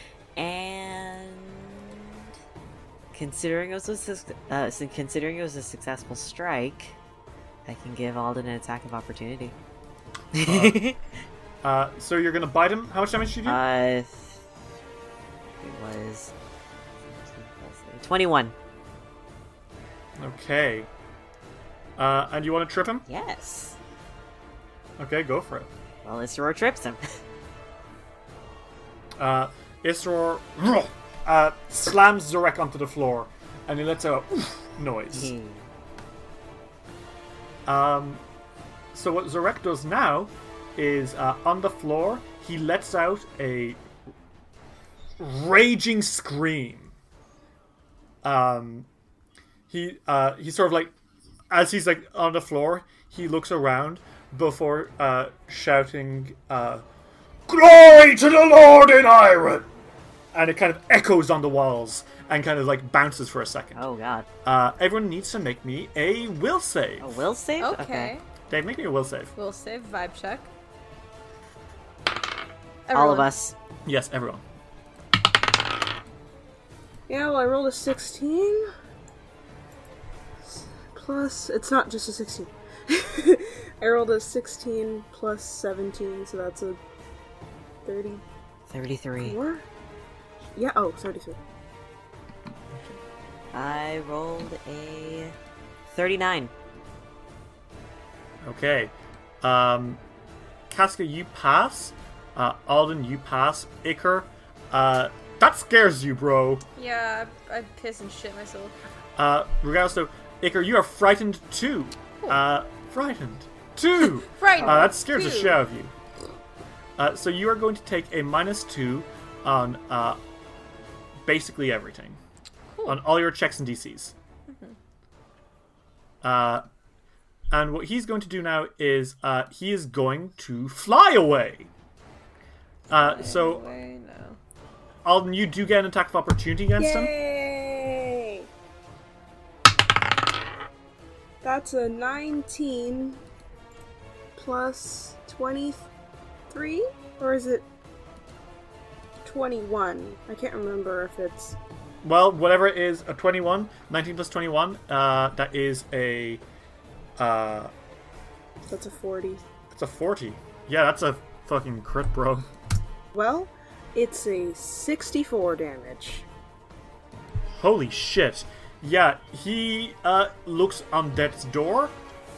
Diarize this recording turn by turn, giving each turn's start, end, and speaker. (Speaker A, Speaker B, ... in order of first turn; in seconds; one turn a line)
Speaker A: 0.4-2.2
Speaker A: 3.1-7.0
Speaker A: 7.7-9.6
Speaker A: 10.3-11.0
Speaker B: 10.4-10.8
Speaker B: 11.6-13.6
Speaker A: 13.4-14.4
Speaker A: 15.6-16.3
Speaker A: 17.1-18.6
Speaker B: 20.2-20.9
Speaker B: 22.0-23.1
Speaker A: 23.1-23.8
Speaker B: 25.0-25.7
Speaker A: 26.0-27.0
Speaker B: 29.2-35.3
Speaker A: 35.1-35.7
Speaker B: 37.7-38.2
Speaker B: 38.9-43.8
Speaker B: 45.2-47.0
Speaker B: 48.2-48.9
Speaker B: 49.7-50.9
Speaker B: 51.5-56.8
Speaker B: 57.5-59.7
Speaker B: 60.3-63.9
Speaker A: 63.8-64.3
Speaker B: 64.4-67.2
Speaker A: 67.0-68.1
Speaker C: 67.6-68.2
Speaker B: 68.5-69.3
Speaker C: 69.3-70.5
Speaker C: 72.9-73.3
Speaker A: 72.9-73.6
Speaker B: 73.9-74.4
Speaker D: 77.1-78.7
Speaker D: 80.5-86.8
Speaker D: 87.8-88.2
Speaker A: 88.7-89.4
Speaker D: 89.2-89.7
Speaker D: 90.5-91.4
Speaker B: 92.7-93.0
Speaker A: 93.5-95.3
Speaker A: 95.9-96.5
Speaker B: 98.4-100.0
Speaker B: 100.7-106.7
Speaker C: 106.8-108.7
Speaker B: 109.2-115.9
Speaker C: 114.3-115.6
Speaker B: 117.0-120.2
Speaker B: 121.2-122.2
Speaker C: 122.7-123.0
Speaker B: 122.9-124.1
Speaker C: 124.5-124.8
Speaker B: 126.2-126.7
Speaker B: 127.5-131.7
Speaker B: 132.9-133.7
Speaker C: 132.9-134.4
Speaker B: 135.1-137.1
Speaker D: 136.8-138.5
Speaker D: 141.4-143.2
Speaker D: 144.4-145.9
Speaker D: 146.5-147.7
Speaker D: 149.2-151.6
Speaker B: 152.0-156.4
Speaker B: 157.2-157.7
Speaker D: 158.7-159.4
Speaker B: 159.7-162.5
Speaker D: 163.1-166.3
Speaker B: 167.6-172.0